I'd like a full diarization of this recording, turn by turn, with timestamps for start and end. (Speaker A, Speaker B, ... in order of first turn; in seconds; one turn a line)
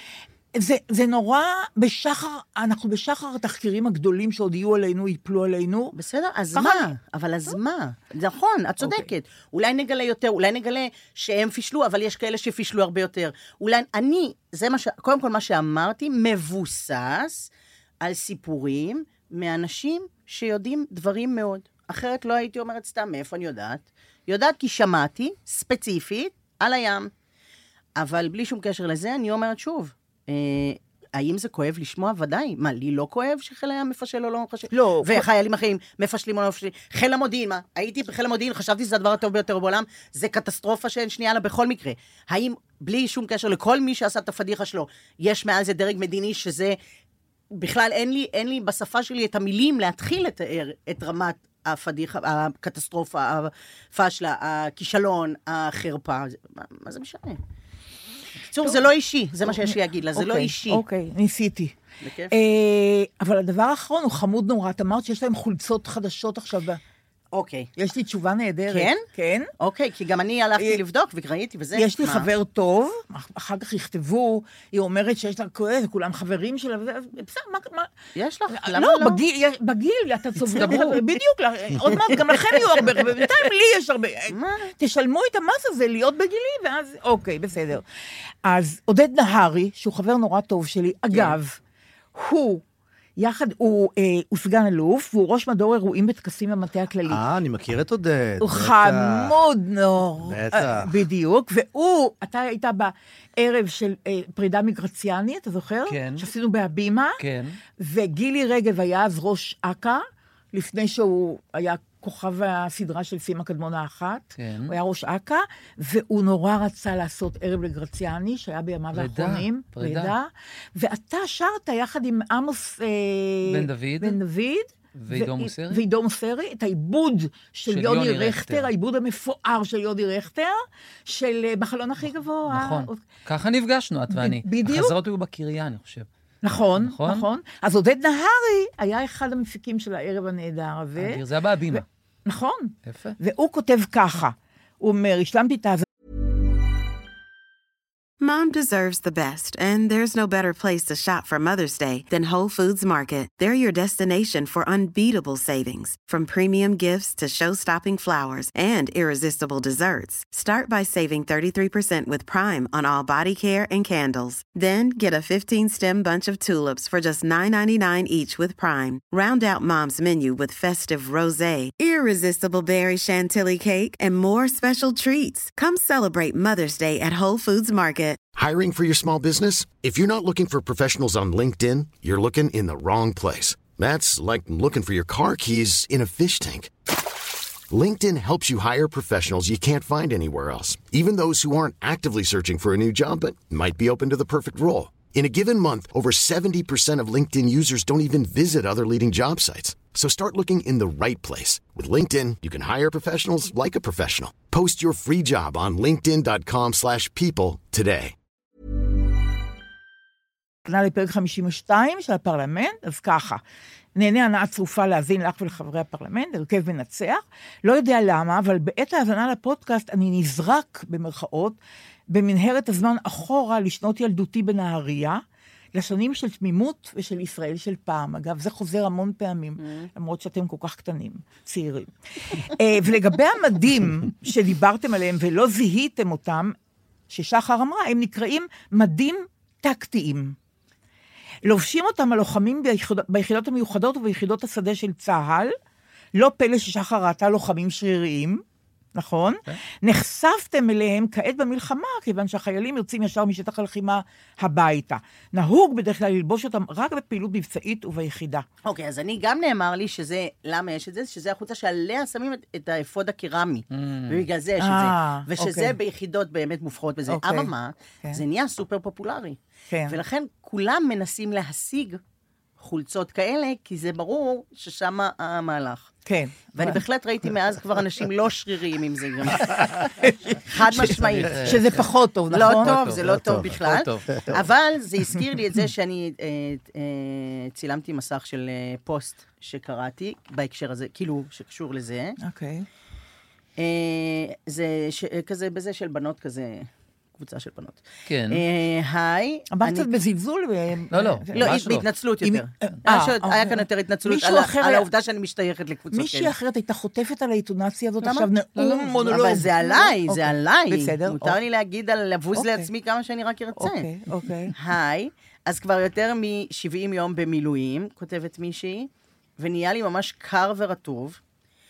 Speaker A: 0.6-5.9
Speaker B: 6.0-17.5
Speaker A: 6.5-6.9
Speaker B: 18.0-27.1
Speaker B: 28.0-46.8
Speaker A: 34.7-35.3
Speaker B: 47.5-57.4
Speaker B: 58.5-60.8
Speaker A: 59.5-61.8
Speaker B: 62.0-62.3
Speaker A: 62.3-66.8
Speaker B: 67.3-67.7
Speaker A: 67.8-69.5
Speaker B: 68.7-69.0
Speaker B: 69.6-72.3
Speaker A: 71.8-77.9
Speaker B: 78.2-79.2
Speaker A: 78.5-87.8
Speaker B: 80.5-80.9
Speaker C: 80.5-81.0
Speaker B: 82.1-82.8
Speaker B: 84.3-84.7
Speaker A: 88.5-91.6
Speaker B: 91.1-91.4
Speaker A: 92.2-92.6
Speaker A: 93.2-97.2
Speaker D: 97.1-99.3
Speaker A: 98.4-107.2
Speaker D: 100.2-100.9
Speaker C: 105.9-106.3
Speaker C: 107.2-107.6
Speaker A: 107.8-110.0
Speaker A: 110.5-133.0
Speaker C: 114.4-114.8
Speaker C: 118.9-120.2
Speaker C: 123.5-124.2
Speaker C: 125.0-125.8
Speaker C: 127.7-128.7
Speaker C: 132.5-136.1
Speaker A: 134.1-134.9
Speaker A: 136.4-141.2
Speaker C: 136.8-137.3
Speaker C: 141.0-141.8
Speaker A: 141.7-145.8
Speaker C: 142.9-143.2
Speaker E: 148.2-178.2
Speaker F: 178.3-186.7
Speaker F: 187.7-208.2
Speaker A: 210.7-213.4
Speaker A: 213.9-221.6
Speaker A: 222.1-225.2
Speaker A: 225.7-236.6
Speaker A: 237.1-240.4
Speaker A: 241.4-245.5
Speaker A: 246.2-248.4
Speaker A: 248.9-258.4
Speaker B: 258.6-272.0
Speaker C: 263.7-264.3
Speaker A: 264.6-265.8
Speaker A: 267.1-267.5
Speaker A: 269.7-270.0
Speaker B: 272.6-275.9
Speaker A: 276.1-276.8
Speaker B: 276.6-281.7
Speaker A: 280.0-282.8
Speaker C: 280.7-284.1
Speaker B: 282.3-292.2
Speaker D: 283.0-283.5
Speaker A: 292.2-292.7
Speaker B: 293.6-299.9
Speaker C: 298.1-298.4
Speaker A: 299.5-301.5
Speaker C: 300.9-301.9
Speaker B: 301.3-306.3
Speaker A: 302.2-304.9
Speaker A: 305.9-311.4
Speaker B: 308.0-313.9
Speaker A: 312.4-312.7
Speaker A: 313.6-314.5
Speaker B: 314.6-321.2